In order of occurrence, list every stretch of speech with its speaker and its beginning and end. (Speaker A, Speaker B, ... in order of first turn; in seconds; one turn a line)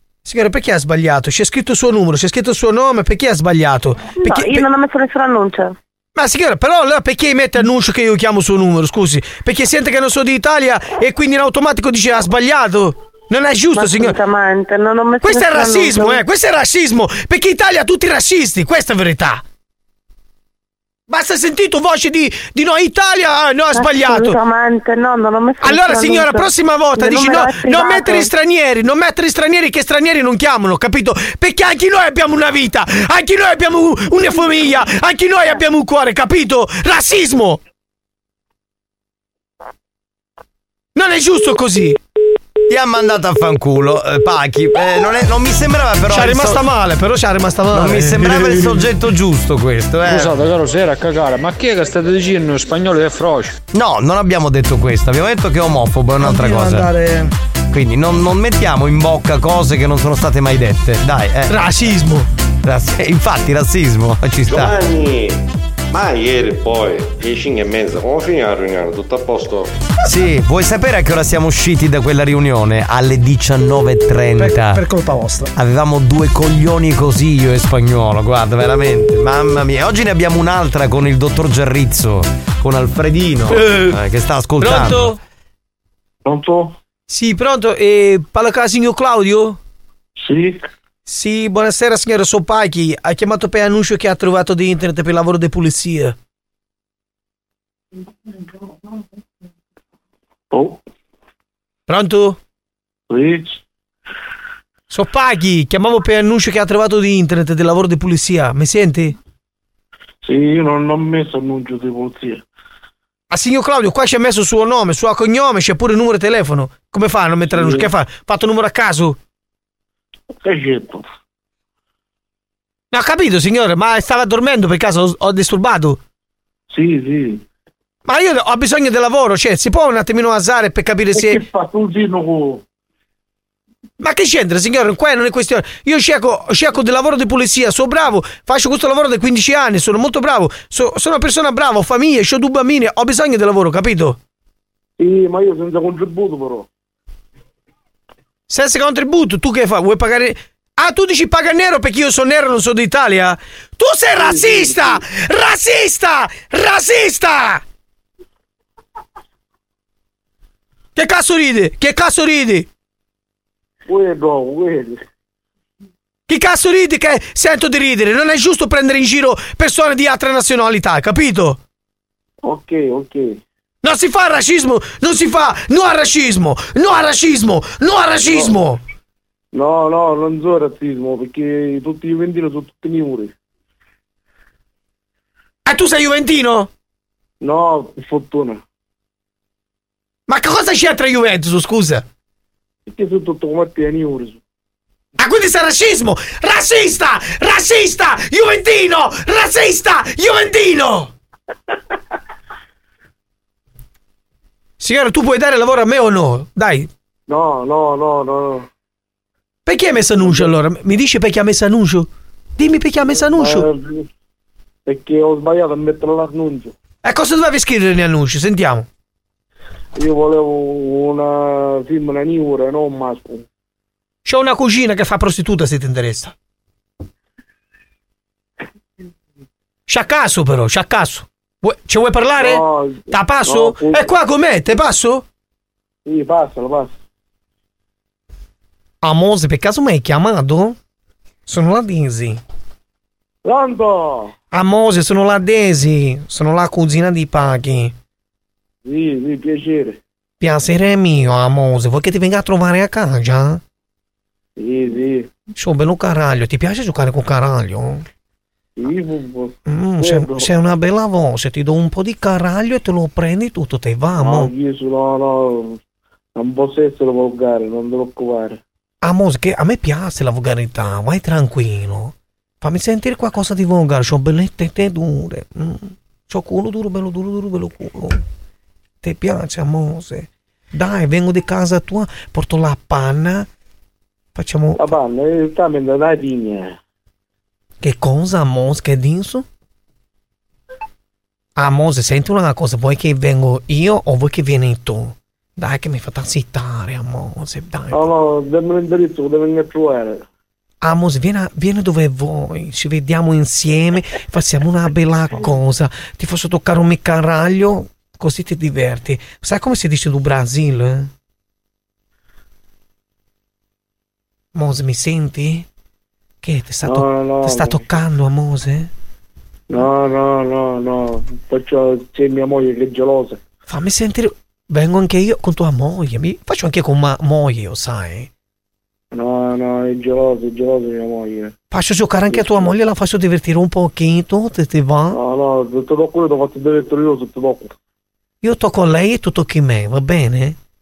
Speaker A: 0.2-4.7
Speaker B: 4.2-5.7
Speaker A: 6.2-14.2
Speaker B: 13.7-16.2
Speaker A: 15.2-19.4
Speaker A: 21.1-24.4
Speaker B: 23.7-28.3
Speaker A: 25.6-37.6
Speaker A: 41.0-42.0
Speaker C: 42.7-46.6
Speaker A: 46.1-48.7
Speaker C: 47.7-50.3
Speaker D: 50.1-53.5
Speaker C: 53.7-56.9
Speaker E: 56.2-57.3
Speaker C: 57.7-61.7
Speaker A: 61.5-62.3
Speaker C: 62.6-64.8
Speaker F: 64.5-69.7
Speaker C: 70.0-74.8
Speaker E: 74.3-75.5
Speaker C: 75.5-85.1
Speaker A: 83.5-83.9
Speaker A: 84.6-85.2
Speaker G: 86.2-86.7
Speaker A: 87.1-89.6
Speaker G: 90.2-90.6
Speaker A: 91.1-96.2
Speaker G: 100.5-100.8
Speaker A: 101.9-102.4
Speaker G: 103.1-103.5
Speaker A: 104.9-109.1
Speaker G: 110.2-112.4
Speaker A: 113.3-119.2
Speaker G: 117.5-117.9
Speaker G: 120.4-121.0
Speaker A: 122.9-126.0
Speaker G: 126.7-127.4
Speaker A: 128.1-131.4
Speaker G: 131.2-132.6
Speaker A: 134.0-144.2
Speaker G: 145.0-146.7
Speaker A: 148.5-157.6
Speaker G: 154.2-154.9
Speaker A: 160.9-162.7
Speaker G: 163.9-165.0
Speaker A: 166.3-171.6
Speaker G: 172.4-173.4
Speaker A: 173.8-178.8
Speaker G: 179.5-183.3
Speaker A: 185.7-186.7
Speaker G: 187.4-188.6
Speaker A: 190.3-192.0
Speaker G: 192.9-194.4
Speaker A: 195.2-201.1
Speaker A: 204.8-206.9
Speaker G: 207.3-208.7
Speaker A: 209.7-213.7
Speaker G: 210.2-210.5
Speaker G: 213.3-214.1
Speaker G: 214.8-216.7
Speaker A: 217.0-218.9
Speaker G: 219.9-223.4
Speaker A: 224.2-226.3
Speaker A: 229.9-235.2
Speaker G: 232.4-234.1
Speaker G: 236.1-236.9
Speaker A: 239.0-240.8
Speaker A: 241.5-242.4
Speaker G: 243.4-244.3
Speaker A: 244.5-247.9
Speaker G: 248.8-250.0
Speaker A: 250.4-253.6
Speaker G: 254.6-255.3
Speaker A: 255.6-258.0
Speaker G: 258.8-260.5
Speaker A: 259.7-264.5
Speaker G: 264.2-265.8
Speaker G: 266.4-268.6
Speaker A: 269.0-278.2
Speaker A: 279.0-283.5
Speaker A: 284.4-284.9
Speaker G: 284.8-286.8
Speaker A: 287.8-289.4
Speaker A: 291.6-298.1
Speaker G: 297.9-300.2
Speaker A: 300.8-311.1
Speaker A: 314.6-315.6
Speaker A: 316.4-318.9
Speaker G: 316.8-317.9
Speaker G: 319.7-323.4
Speaker A: 323.7-328.3
Speaker G: 329.1-331.5
Speaker A: 331.7-335.2
Speaker G: 332.3-332.7
Speaker G: 335.1-337.7
Speaker A: 338.4-340.6